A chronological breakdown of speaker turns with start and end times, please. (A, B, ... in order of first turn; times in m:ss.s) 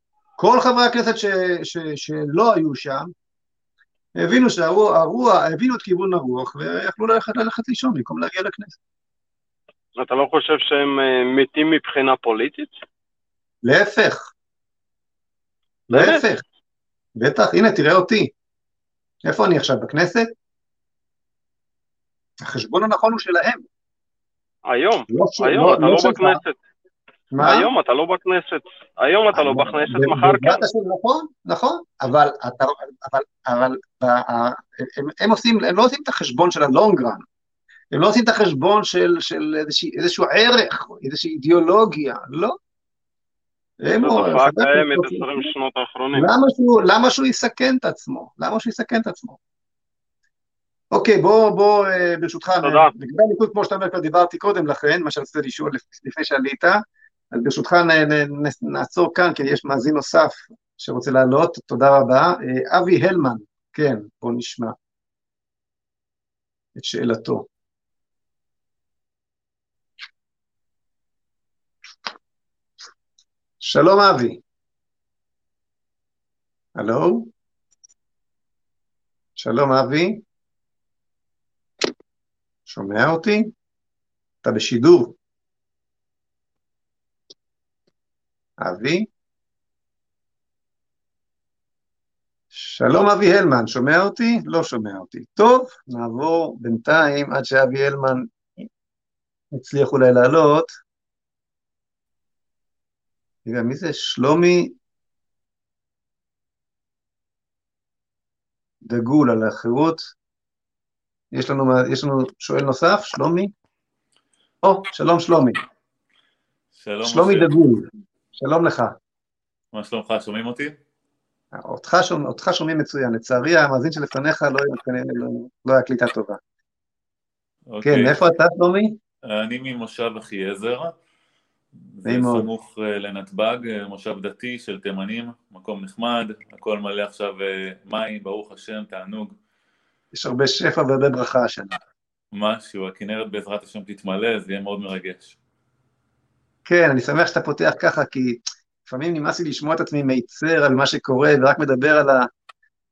0:00.4-0:03.1 A
0:04.2-0:08.8 A
0:10.0-0:12.7 B
0:13.6-0:14.3 A
0:15.9-0:16.2 B
0:15.9-0:16.4 A
0:17.2-0:18.3 A
0:19.2-0:20.3 A
0:22.4-0:23.6 A
0:24.7-0:26.6 B
0:25.1-0:26.4 A
0:27.3-0:27.7 A
0:27.4-0:30.6 B
0:29.3-0:37.2 A
0:37.9-0:42.6 A
0:43.8-0:45.5 A
0:44.0-0:46.3 B
0:46.2-0:49.4 A
0:50.9-0:56.8 A
0:52.6-0:52.9 B
0:57.3-1:04.8 A
1:06.8-1:07.5 A
1:13.6-1:14.4 A
1:16.8-1:17.3 A
1:19.4-1:20.2 A
1:22.7-1:23.5 A
1:24.4-1:25.2 A
1:28.6-1:29.1 A
1:32.5-1:38.3 A
1:39.5-1:40.7 A
1:43.5-1:44.8 A
1:48.8-1:50.1 A
1:51.3-1:53.5 A
1:54.6-1:55.6 A
1:56.7-1:57.5 C
1:57.0-1:59.0 A
1:59.7-2:00.8 C
2:01.5-2:06.4 A
2:07.7-2:08.2 C
2:07.8-2:09.0 A
2:09.3-2:11.0 C
2:12.0-2:19.4 C
2:12.0-2:12.5 A
2:20.1-2:21.8 A
2:22.3-2:25.4 C
2:26.7-2:32.3 A